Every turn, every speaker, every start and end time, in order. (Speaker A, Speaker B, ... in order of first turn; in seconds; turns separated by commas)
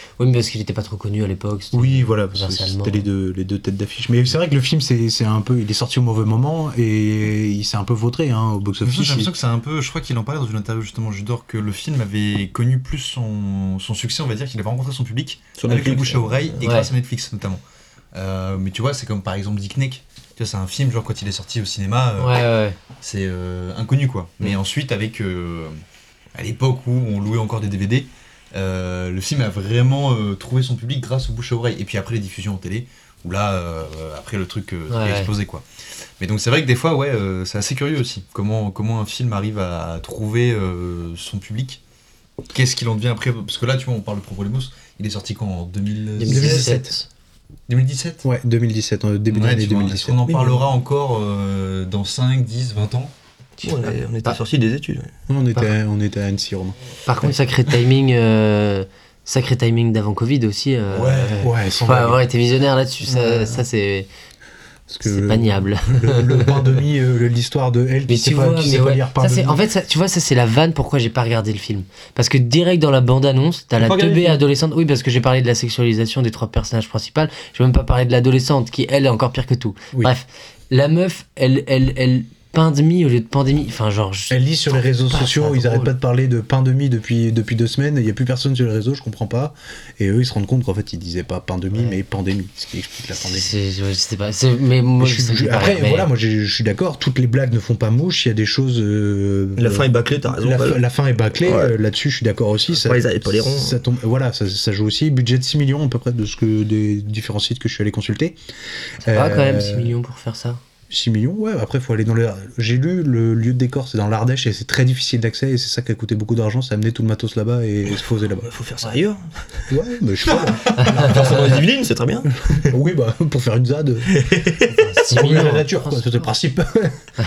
Speaker A: 0.2-3.1, Speaker B: 1.7-9.3, Speaker C: 8.8-17.6, Speaker D: 15.6-16.6, Speaker A: 16.6-16.9, Speaker C: 18.1-22.4, Speaker A: 22.2-22.8, Speaker C: 23.0-25.8, Speaker C: 26.4-35.6, Speaker A: 34.9-35.3, Speaker C: 36.2-41.8, Speaker C: 42.5-46.7, Speaker A: 46.2-47.1, Speaker B: 46.3-47.0, Speaker C: 47.7-48.2, Speaker B: 48.2-50.2, Speaker C: 49.3-53.1, Speaker D: 50.3-50.6, Speaker D: 53.6-55.1, Speaker B: 55.3-56.8, Speaker A: 57.1-64.1, Speaker C: 60.9-61.4, Speaker B: 61.4-62.2, Speaker B: 63.0-63.6, Speaker B: 64.9-69.6, Speaker A: 65.0-66.6, Speaker A: 68.1-85.9, Speaker D: 73.8-74.4, Speaker B: 84.3-93.5, Speaker A: 93.2-96.1, Speaker B: 95.0-108.4, Speaker D: 99.6-100.8, Speaker D: 101.4-101.7, Speaker D: 102.7-103.8, Speaker B: 109.0-109.9, Speaker A: 109.1-110.6, Speaker B: 110.9-118.5, Speaker D: 118.5-119.6, Speaker B: 119.7-121.6, Speaker D: 120.3-122.7, Speaker B: 122.5-124.2, Speaker D: 124.1-124.8, Speaker A: 124.8-126.3, Speaker B: 125.0-127.0